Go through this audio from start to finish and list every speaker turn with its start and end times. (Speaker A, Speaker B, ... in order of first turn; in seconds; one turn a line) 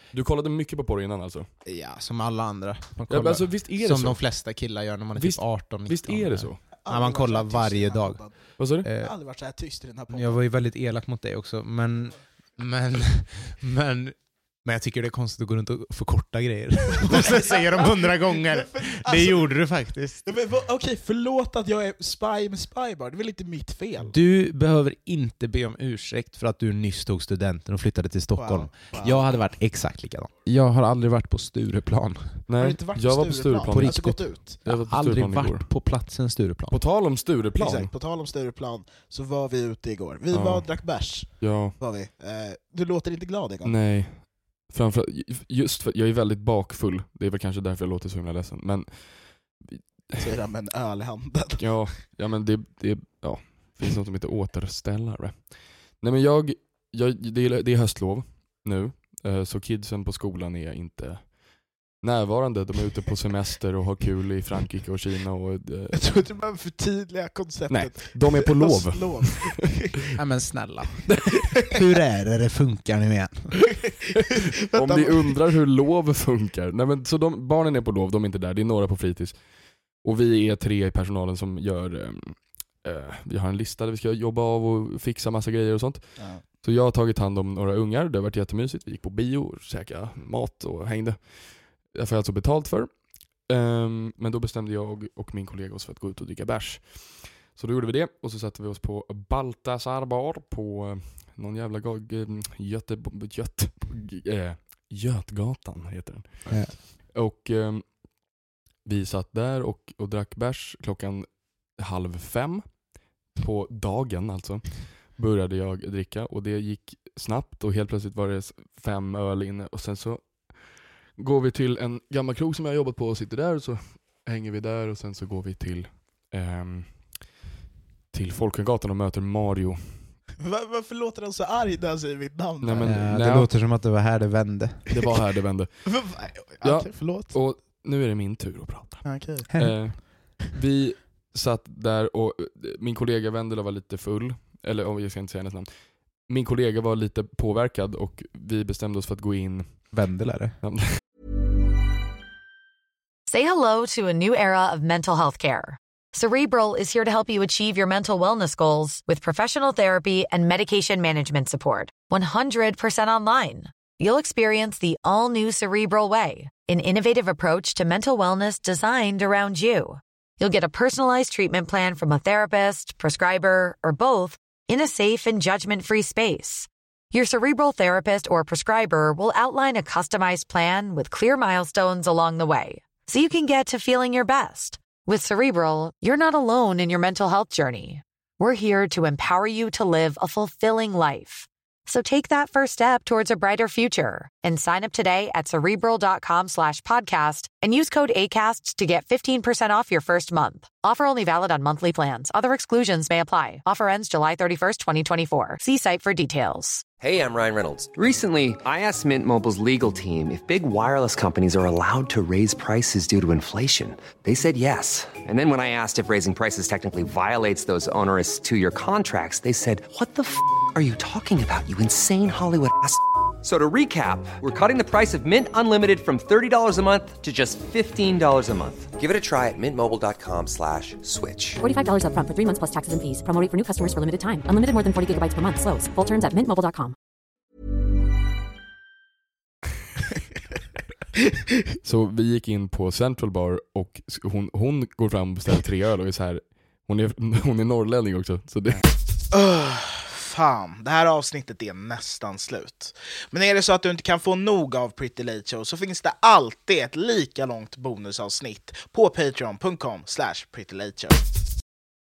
Speaker A: 0.1-1.5
Speaker B: 1.6-9.1
Speaker A: 3.1-4.4
Speaker A: 5.1-6.6
Speaker C: 6.7-10.5
Speaker A: 8.6-8.9
Speaker B: 10.1-20.3
Speaker C: 17.2-24.2
Speaker B: 24.0-32.5
Speaker C: 28.4-29.5
Speaker A: 32.5-35.8
Speaker C: 32.5-34.6
Speaker B: 33.7-36.8
Speaker A: 36.7-37.9
Speaker C: 37.5-43.8
Speaker A: 40.3-41.8
Speaker A: 43.6-50.4
Speaker C: 50.2-51.9
Speaker A: 51.6-66.0
Speaker C: 65.9-69.8
Speaker A: 67.7-69.6
Speaker B: 70.2-73.8
Speaker C: 74.7-75.4
Speaker A: 74.7-108.3
Speaker C: 86.2-86.4
Speaker C: 106.4-106.8
Speaker A: 108.8-127.4
Speaker A: 128.1-130.2
Speaker C: 130.4-133.0
Speaker A: 132.6-133.5
Speaker B: 132.8-135.0
Speaker A: 134.9-150.9
Speaker C: 135.8-137.4
Speaker C: 139.0-140.0
Speaker B: 139.5-140.0
Speaker B: 149.9-150.6
Speaker D: 153.3-206.9
Speaker E: 207.0-231.6
Speaker F: 231.6-236.9
Speaker A: 241.8-249.1
Speaker C: 249.3-261.3